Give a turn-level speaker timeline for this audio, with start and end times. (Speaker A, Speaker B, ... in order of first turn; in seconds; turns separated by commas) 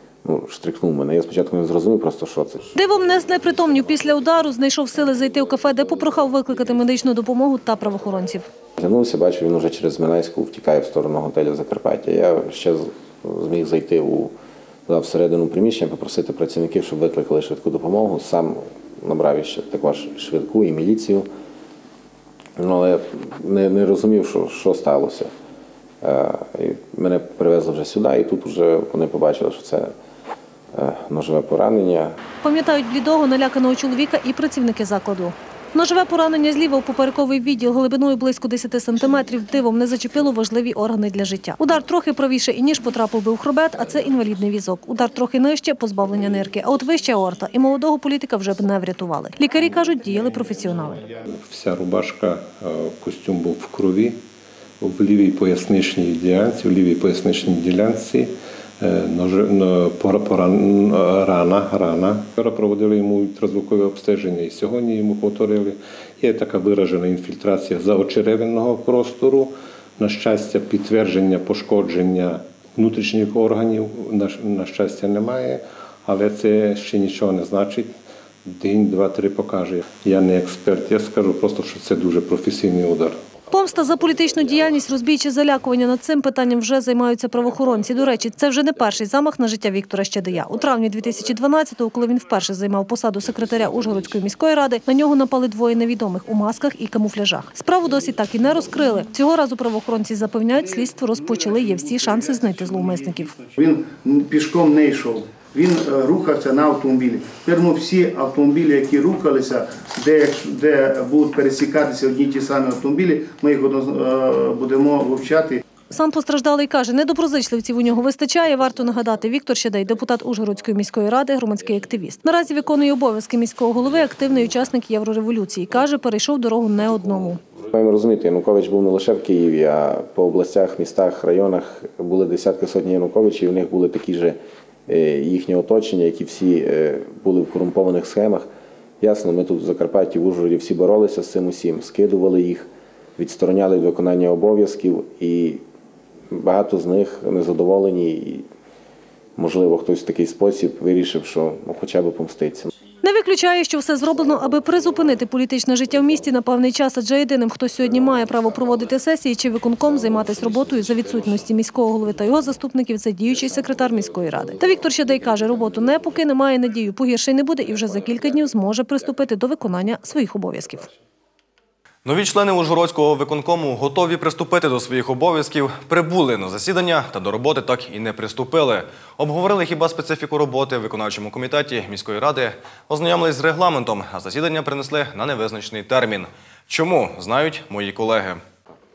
Speaker A: 0.2-2.7, Speaker B: 2.8-8.5, Speaker A: 8.8-14.3, Speaker A: 14.9-21.3, Speaker A: 22.6-25.3, Speaker A: 26.0-29.9, Speaker A: 30.7-32.1, Speaker B: 32.4-51.0, Speaker C: 51.3-54.2, Speaker C: 54.8-83.2, Speaker B: 83.5-103.4, Speaker D: 103.5-115.6, Speaker B: 115.9-127.4, Speaker A: 127.7-138.5, Speaker A: 139.0-145.6, Speaker A: 146.3-148.4, Speaker A: 149.4-152.7, Speaker B: 153.0-170.9, Speaker E: 172.0-188.4